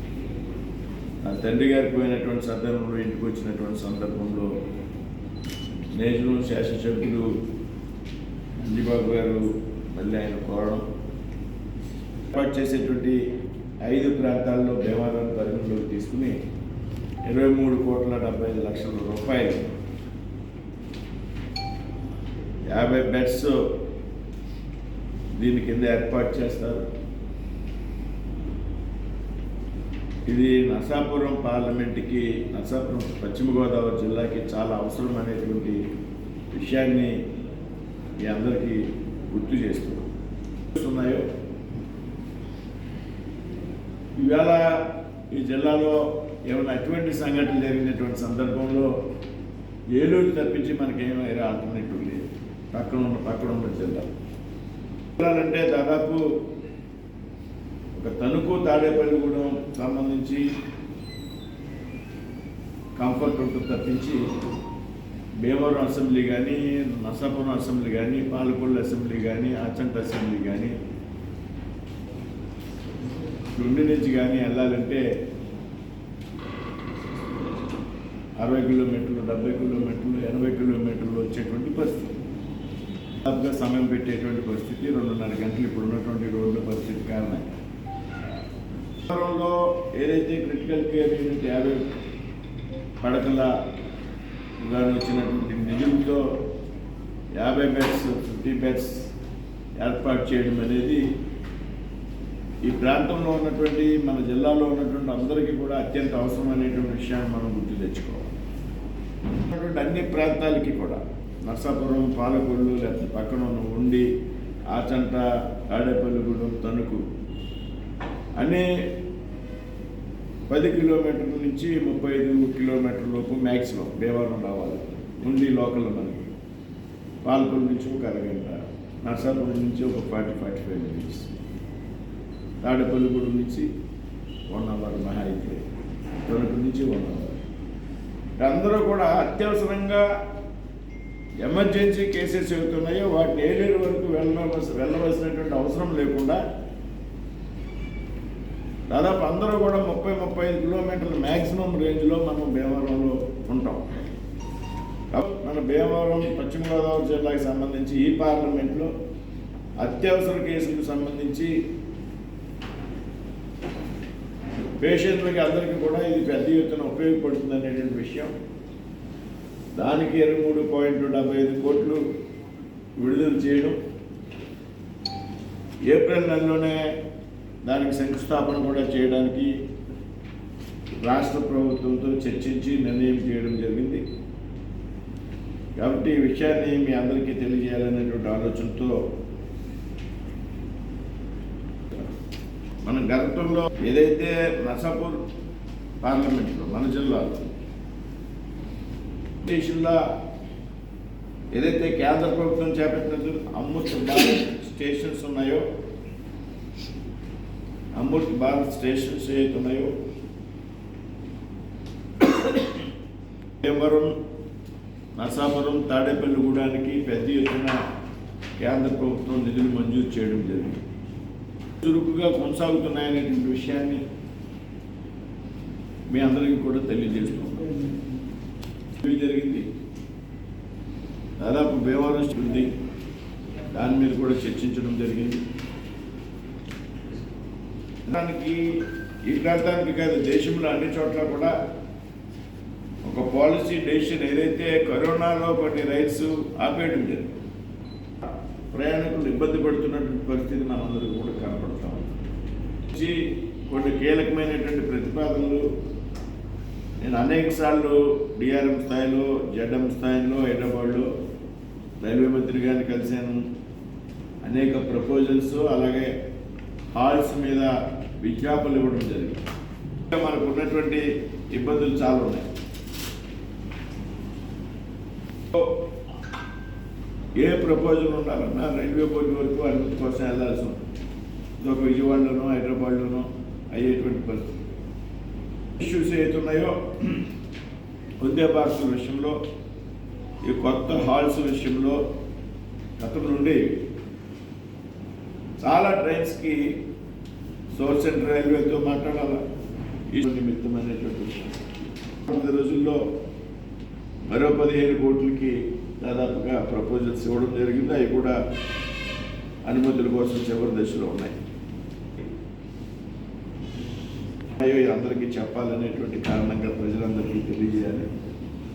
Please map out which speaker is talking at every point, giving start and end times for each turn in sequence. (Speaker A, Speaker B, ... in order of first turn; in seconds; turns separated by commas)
Speaker A: 1.2-4.5, Speaker A: 5.9-7.4, Speaker A: 8.6-10.8, Speaker A: 12.3-13.2, Speaker A: 13.8-16.4, Speaker A: 17.2-19.7, Speaker A: 22.6-23.7, Speaker A: 25.4-26.8, Speaker A: 30.3-35.8, Speaker A: 36.5-37.2, Speaker A: 38.2-40.1, Speaker A: 40.7-41.3, Speaker A: 44.2-48.9, Speaker A: 49.9-54.0, Speaker A: 55.2-56.4, Speaker A: 57.9-60.4, Speaker A: 63.0-64.2, Speaker A: 65.4-70.7, Speaker A: 73.5-75.0, Speaker A: 78.4-82.1, Speaker A: 83.2-87.5, Speaker A: 89.1-91.9, Speaker A: 93.0-93.5, Speaker A: 94.6-96.4, Speaker A: 97.3-99.1, Speaker A: 99.8-101.0, Speaker A: 102.6-108.3, Speaker A: 109.5-114.1, Speaker A: 114.7-117.0, Speaker A: 118.4-118.7, Speaker A: 120.5-126.3, Speaker A: 127.2-131.3, Speaker A: 132.6-133.7, Speaker A: 134.5-135.6, Speaker A: 136.2-137.4, Speaker A: 138.4-140.1, Speaker A: 141.4-146.4, Speaker A: 148.9-153.9, Speaker A: 155.1-158.9, Speaker A: 159.8-161.5, Speaker A: 164.8-168.3, Speaker A: 169.8-172.0, Speaker A: 173.0-173.8, Speaker A: 175.9-176.9, Speaker A: 177.6-179.5, Speaker A: 181.0-184.0, Speaker A: 185.8-189.0, Speaker A: 192.8-195.2, Speaker A: 196.0-197.5, Speaker A: 199.4-200.0, Speaker A: 201.5-205.6, Speaker A: 207.9-209.9, Speaker A: 213.6-214.1, Speaker A: 215.2-217.8, Speaker A: 218.6-220.8, Speaker A: 221.8-224.0, Speaker A: 226.1-227.8, Speaker A: 229.0-229.7, Speaker A: 231.4-232.7, Speaker A: 233.7-235.4, Speaker A: 238.1-241.5, Speaker A: 243.0-247.3, Speaker A: 248.7-252.1, Speaker A: 252.9-255.7, Speaker A: 257.0-261.1, Speaker A: 262.0-263.4, Speaker A: 264.4-266.1, Speaker A: 266.9-269.4, Speaker A: 270.1-272.5, Speaker A: 275.5-275.8, Speaker A: 277.4-280.8, Speaker A: 281.6-284.5, Speaker A: 285.8-287.2, Speaker A: 288.2-289.4, Speaker A: 290.4-292.0, Speaker A: 293.0-293.8, Speaker A: 295.6-296.8, Speaker A: 297.7-299.4, Speaker A: 300.1-301.6, Speaker A: 302.3-303.0, Speaker A: 304.3-308.4, Speaker A: 309.6-311.4, Speaker A: 314.6-318.1